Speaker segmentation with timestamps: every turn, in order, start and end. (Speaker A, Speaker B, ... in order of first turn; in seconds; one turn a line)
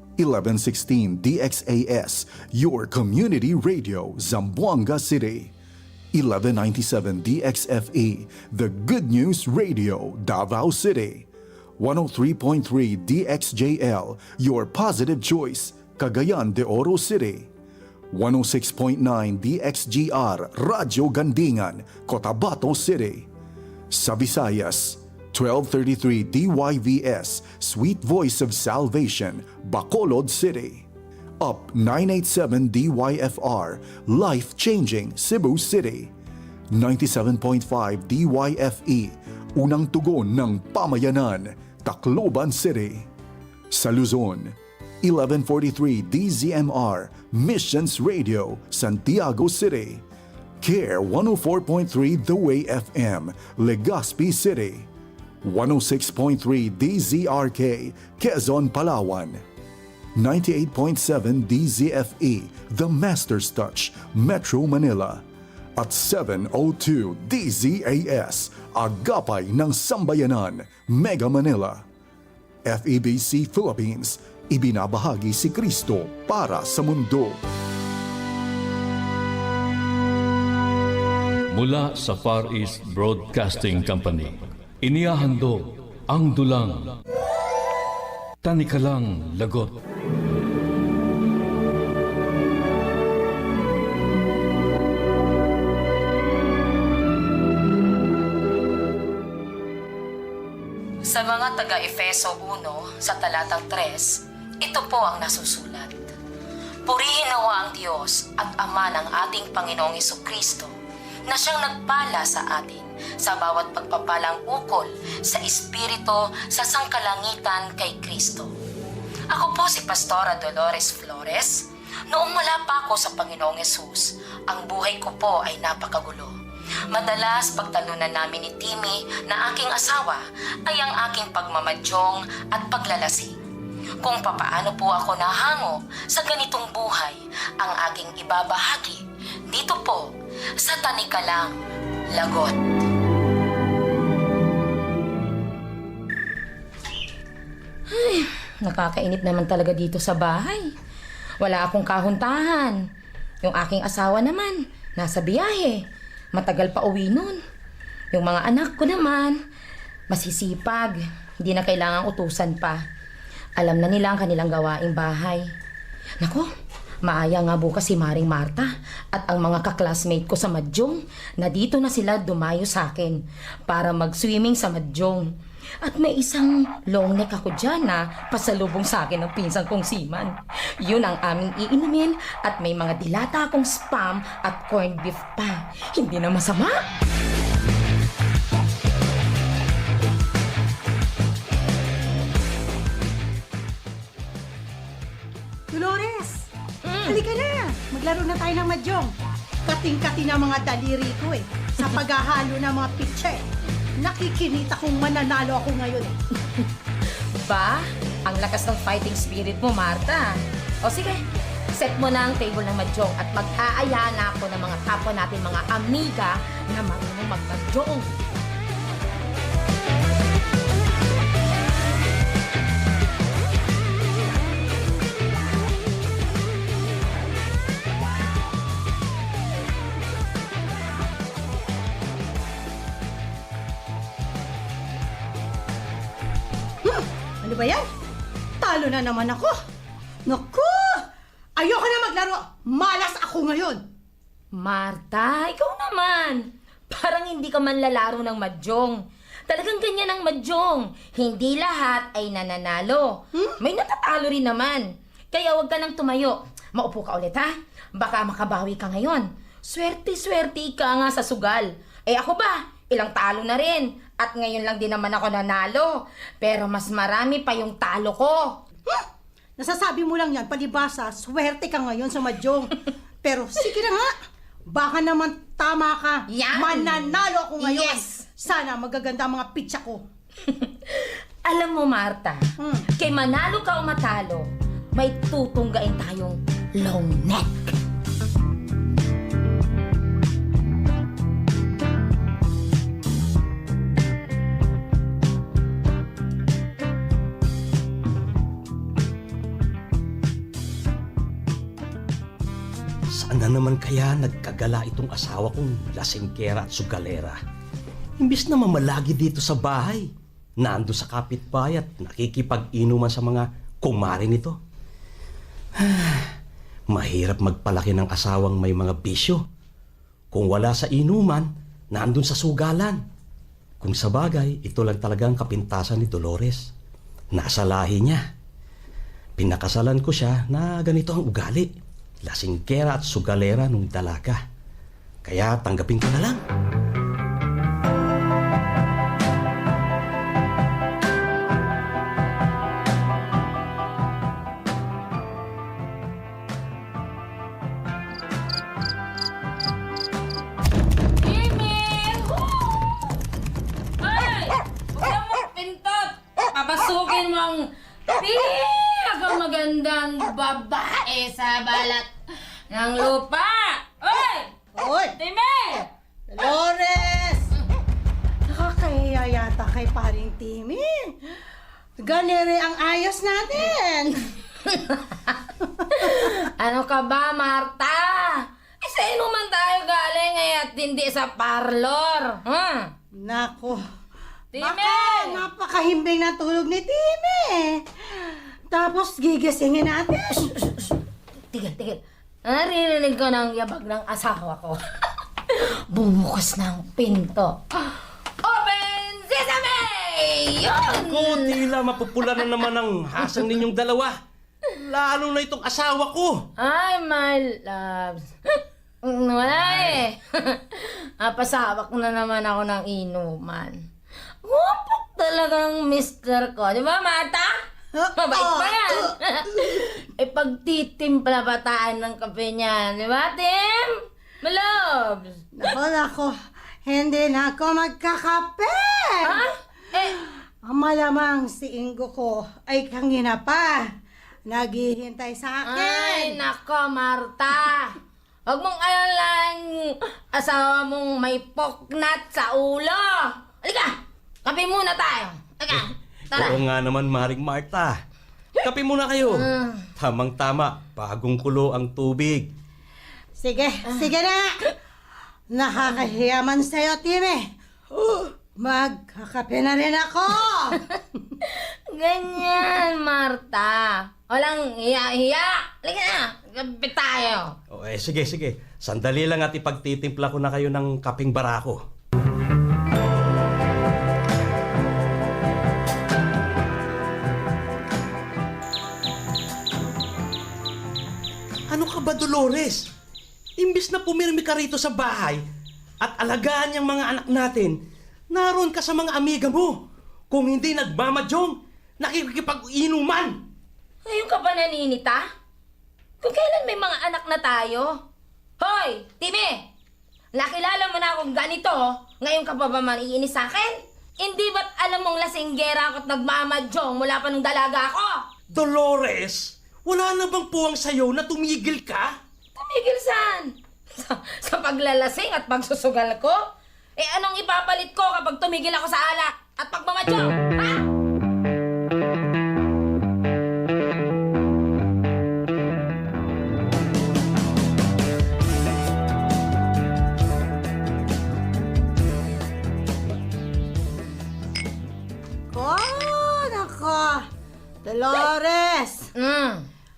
Speaker A: 0.2-5.5
Speaker A: 6.1-17.5
Speaker A: 18.1-23.3
Speaker A: 23.9-30.9
Speaker A: 31.4-36.1
Speaker A: 36.7-43.1
Speaker A: 43.7-50.0
Speaker A: 50.6-54.9
Speaker A: 55.4-59.4
Speaker A: 60.1-65.2
Speaker A: 65.8-71.8
Speaker A: 72.6-77.4
Speaker B: 81.5-87.0
Speaker B: 88.4-89.7
Speaker C: 101.0-106.1
Speaker C: 106.8-110.7
Speaker C: 111.3-118.5
Speaker C: 119.3-126.4
Speaker C: 126.9-133.4
Speaker C: 134.0-141.6
Speaker C: 142.1-142.6
Speaker C: 147.9-150.7
Speaker C: 151.4-152.8
Speaker C: 153.4-155.8
Speaker C: 156.3-157.3
Speaker C: 158.1-159.3
Speaker C: 160.1-162.8
Speaker C: 163.6-165.5
Speaker C: 166.2-166.5
Speaker C: 167.0-175.3
Speaker C: 175.8-186.8
Speaker D: 195.7-196.5
Speaker C: 196.8-197.2
Speaker D: 197.1-199.1
Speaker D: 199.6-203.4
Speaker D: 204.0-206.2
Speaker C: 207.4-211.2
Speaker C: 211.7-218.2
Speaker D: 236.8-237.8
Speaker D: 238.6-239.6
Speaker D: 240.2-241.0
Speaker D: 241.6-243.8
Speaker C: 244.6-268.6
Speaker D: 269.6-274.1
Speaker D: 274.7-280.0
Speaker C: 276.3-278.3
Speaker C: 280.5-287.7
Speaker D: 282.6-282.8
Speaker E: 303.1-307.4
Speaker E: 308.2-314.6
Speaker E: 315.8-316.3
Speaker E: 316.9-319.4
Speaker E: 320.3-323.0
Speaker E: 323.8-326.7
Speaker E: 327.3-328.2
Speaker E: 329.4-331.7
Speaker E: 332.2-334.4
Speaker E: 335.2-336.4
Speaker C: 351.2-353.1
Speaker C: 354.0-362.1
Speaker C: 362.7-364.5
Speaker D: 364.7-365.1
Speaker C: 365.2-365.9
Speaker D: 366.3-367.5
Speaker D: 368.5-371.1
Speaker D: 372.0-374.2
Speaker C: 374.6-375.3
Speaker C: 375.9-382.9
Speaker D: 383.1-383.8
Speaker C: 384.5-385.4
Speaker D: 384.6-390.5
Speaker C: 390.6-390.9
Speaker C: 391.5-394.8
Speaker C: 395.5-401.6
Speaker E: 400.9-404.2
Speaker E: 404.7-406.4
Speaker C: 406.6-413.8
Speaker C: 414.4-417.5
Speaker D: 417.9-419.1
Speaker C: 418.2-425.4
Speaker D: 425.5-426.3
Speaker D: 426.8-429.4
Speaker C: 429.2-430.2
Speaker D: 430.6-433.9
Speaker D: 434.4-436.4
Speaker C: 435.7-437.9
Speaker C: 438.5-446.6
Speaker E: 446.3-448.0
Speaker E: 448.6-452.5
Speaker C: 449.3-449.8
Speaker D: 453.4-454.5
Speaker D: 455.5-460.8
Speaker C: 461.4-467.5
Speaker E: 467.7-471.8
Speaker E: 481.7-482.9
Speaker E: 483.6-485.4
Speaker E: 486.0-487.8
Speaker E: 488.3-489.8
Speaker E: 490.3-493.4
Speaker C: 494.0-495.2
Speaker C: 496.2-498.0
Speaker C: 498.6-499.7
Speaker C: 500.3-508.2
Speaker E: 508.5-512.1
Speaker C: 512.5-516.4
Speaker C: 517.0-520.8
Speaker D: 535.5-537.2
Speaker D: 537.8-539.1
Speaker C: 539.1-539.7